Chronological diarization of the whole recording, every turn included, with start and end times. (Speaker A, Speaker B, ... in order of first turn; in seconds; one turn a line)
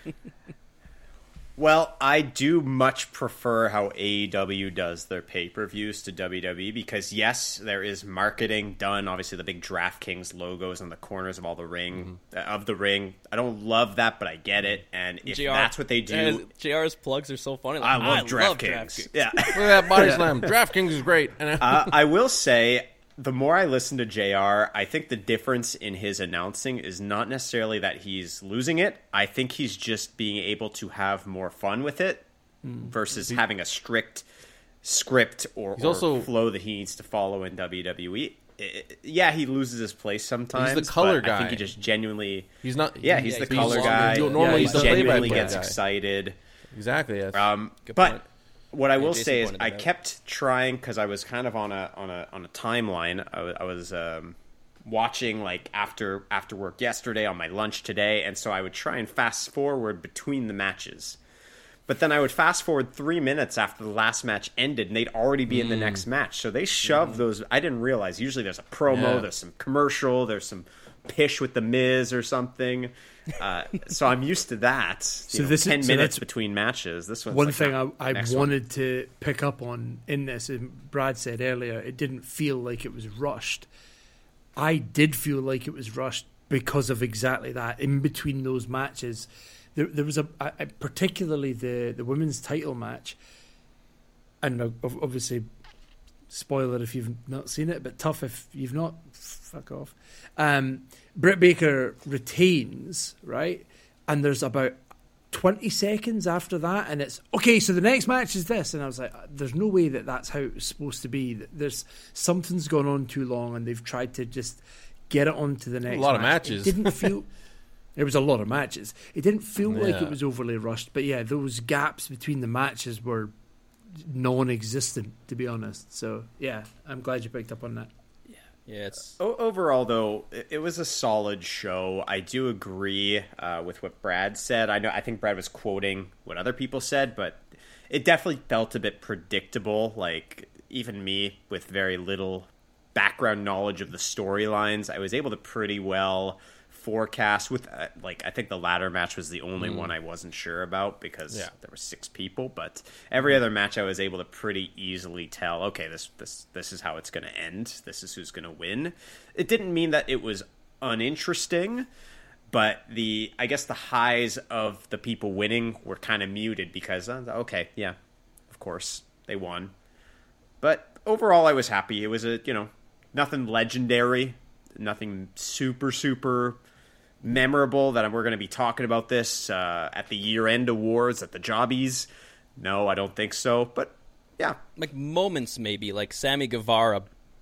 Speaker A: 1.6-16.5
Speaker B: 15.3-19.9
Speaker A: 17.8-20.2
Speaker C: 19.5-21.9
Speaker D: 20.0-20.3
Speaker A: 21.6-32.2
Speaker D: 32.6-32.9
Speaker A: 32.8-34.2
Speaker A: 34.8-46.4
Speaker C: 35.8-36.3
Speaker C: 40.5-41.8
Speaker C: 42.6-45.8
Speaker B: 43.2-45.2
Speaker D: 44.3-45.6
Speaker C: 46.7-47.5
Speaker A: 47.3-48.2
Speaker B: 47.9-48.2
Speaker A: 48.7-61.2
Speaker B: 49.0-49.9
Speaker A: 61.9-78.5
Speaker C: 65.5-66.0
Speaker C: 68.9-69.3
Speaker D: 75.3-76.2
Speaker D: 77.3-83.7
Speaker D: 84.6-93.2
Speaker D: 94.4-95.5
Speaker D: 96.3-104.8
Speaker D: 105.3-117.3
Speaker C: 115.8-117.1
Speaker D: 118.0-123.3
Speaker C: 119.6-120.2
Speaker D: 124.0-127.9
Speaker B: 128.7-129.2
Speaker A: 129.2-161.9
Speaker C: 149.6-149.9
Speaker A: 162.5-167.9
Speaker A: 168.5-169.7
Speaker A: 170.6-176.6
Speaker A: 177.2-184.6
Speaker B: 184.8-187.1